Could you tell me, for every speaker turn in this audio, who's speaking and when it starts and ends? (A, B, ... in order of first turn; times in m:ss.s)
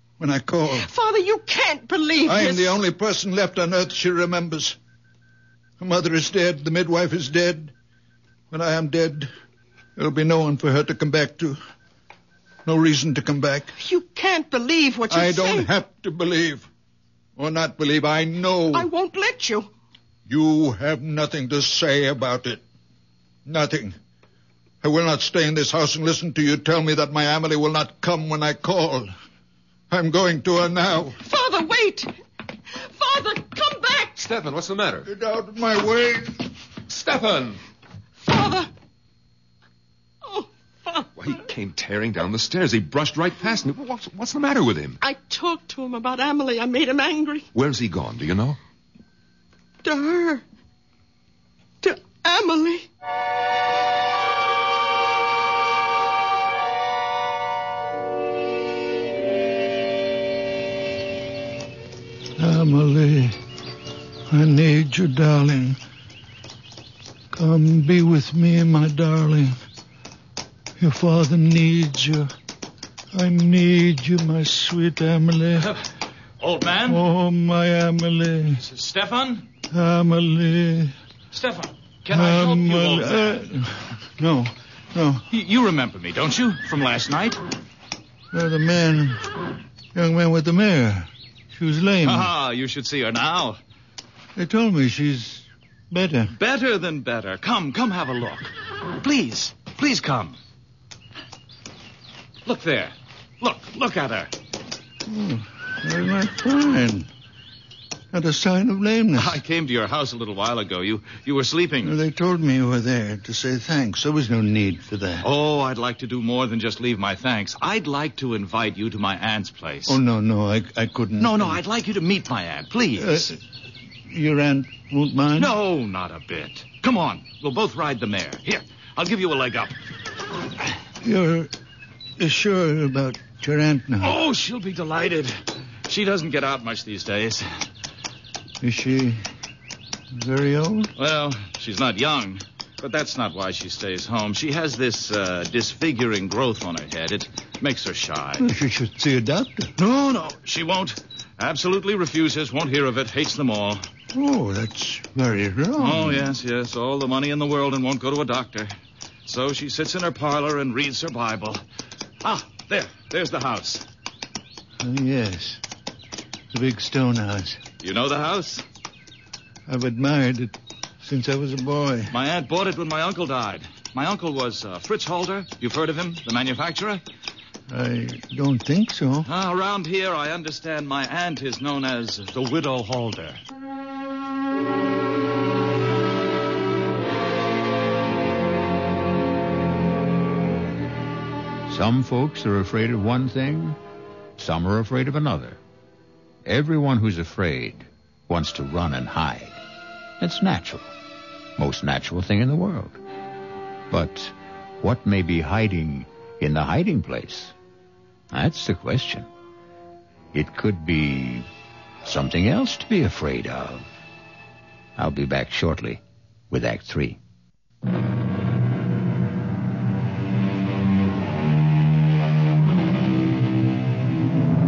0:00.2-0:00.9 A
0:00.7-0:02.8 B
0:02.2-0:04.8 A
0:05.8-0:07.7 A
0:08.5-0:09.3 A
0:10.0-0:11.6 A
0:12.6-0:13.7 A
0:13.8-0:15.7 B
0:15.1-0:16.7 A
0:17.4-0:18.9 A
0:18.7-0:19.7 B
0:20.3-0:22.6 A
0:23.4-0:23.9 A
0:24.8-0:29.1 A
0:29.9-0:31.2 A
0:31.2-0:32.1 B
0:32.7-0:34.3 B
0:34.2-0:35.1 C
0:35.0-0:36.4 A
0:36.9-0:37.6 C
0:38.2-0:38.7 B
0:40.2-0:41.1 B
0:41.2-0:45.0 C
0:45.0-0:47.5 B
0:47.5-0:48.6 C
0:49.8-0:50.4 B
0:51.8-0:52.9 B
1:02.4-1:03.4 A
1:04.3-1:05.8 A
1:07.3-1:09.6 A
1:10.8-1:12.3 A
1:13.1-1:15.8 A
1:16.4-1:17.0 D
1:16.9-1:18.6 A
1:18.6-1:19.4 D
1:19.7-1:20.9 A
1:21.3-1:23.5 D
1:22.1-1:25.2 A
1:25.3-1:27.4 D
1:28.3-1:29.3 A
1:29.9-1:32.3 A
1:32.0-1:33.6 D
1:34.4-1:36.3 A
1:36.3-1:40.4 D
1:42.4-1:44.3 D
1:45.0-1:47.1 A
1:48.1-1:49.4 A
1:49.1-1:52.0 D
1:51.8-1:55.3 A
1:55.2-2:00.0 D
1:59.9-2:01.6 A
2:01.2-2:03.3 D
2:03.0-2:03.4 A
2:04.1-2:05.5 A
2:05.4-2:09.8 D
2:11.0-2:11.5 A
2:12.2-2:14.2 A
2:14.0-2:17.5 D
2:18.6-2:19.2 A
2:20.1-2:20.9 A
2:21.0-2:28.5 D
2:28.4-2:30.4 A
2:30.4-2:33.8 D
2:34.1-2:36.3 A
2:35.8-2:38.7 D
2:39.2-2:41.6 D
2:42.2-2:43.8 D
2:44.8-2:45.6 A
2:46.5-2:47.6 A
2:47.8-2:48.6 D
2:49.7-2:52.1 A
2:52.1-2:57.0 D
2:57.7-2:59.3 A
2:59.2-3:03.4 D
3:11.7-3:13.8 E
3:14.4-3:15.6 E
3:16.4-3:19.6 E
3:20.2-3:20.9 E
3:21.6-3:23.0 E
3:23.9-3:27.5 E
3:28.3-3:29.3 E
3:30.3-3:31.4 E
3:32.0-3:33.9 E
3:35.0-3:37.2 E